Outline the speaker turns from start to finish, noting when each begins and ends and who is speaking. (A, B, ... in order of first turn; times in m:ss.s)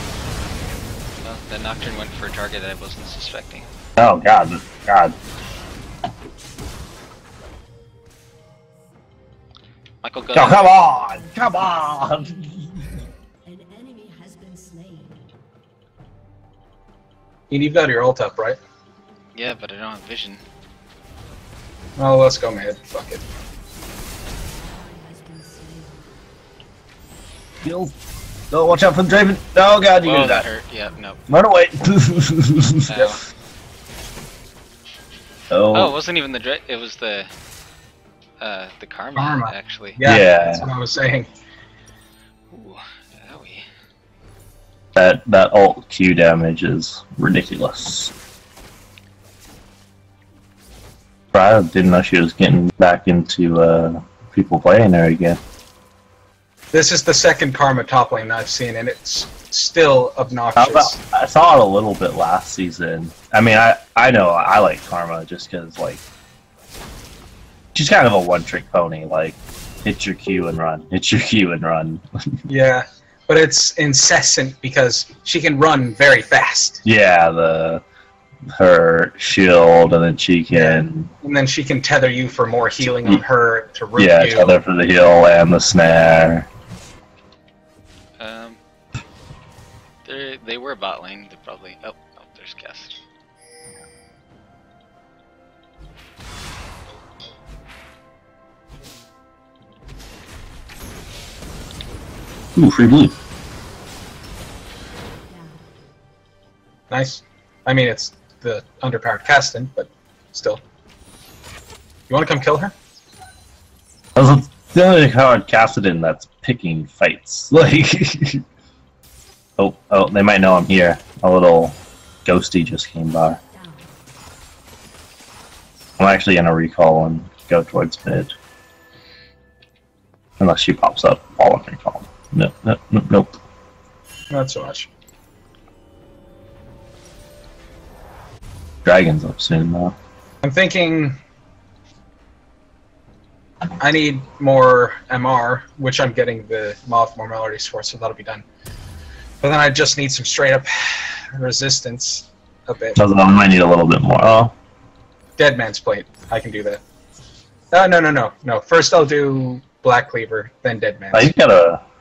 0:01.2-0:03.7 A
0:04.0-0:05.1 B
0:10.0-0:10.6 A
0:10.3-0:12.7 B
0:17.5-0:18.6 C
0:19.4-0:20.4 A
0:22.0-0:23.2 C
0:27.6-0:27.9 B
0:28.5-0:30.5 B
0:30.0-0:31.2 A
0:31.3-0:32.9 B
0:32.9-0:33.2 A
0:35.5-0:36.0 B
0:35.7-0:37.3 A
0:38.4-0:40.0 A
0:39.2-0:41.3 C
0:40.0-0:40.7 B
0:42.5-0:43.7 A
0:45.0-0:48.1 B
0:51.3-0:55.4 B
0:56.7-1:01.0 C
1:00.6-1:06.0 B
1:07.8-1:12.4 B
1:12.5-1:16.8 C
1:16.8-1:17.8 B
1:18.5-1:21.1 B
1:20.5-1:24.6 C
1:24.0-1:26.5 B
1:28.2-1:28.6 A
1:30.0-1:33.0 A
1:42.6-1:43.2 B
1:46.9-1:50.6 C
1:52.1-1:52.7 C
1:54.2-1:58.4 B
1:59.6-2:03.4 B
2:06.0-2:08.4 B
2:10.4-2:13.4 B
2:14.3-2:14.9 C
2:18.8-2:20.0 B
2:20.4-2:21.2 C
2:23.8-2:28.4 C
2:29.4-2:33.0 C
2:33.0-2:34.5 B
2:35.4-2:36.8 C
2:37.7-2:41.3 C
2:41.1-2:41.8 B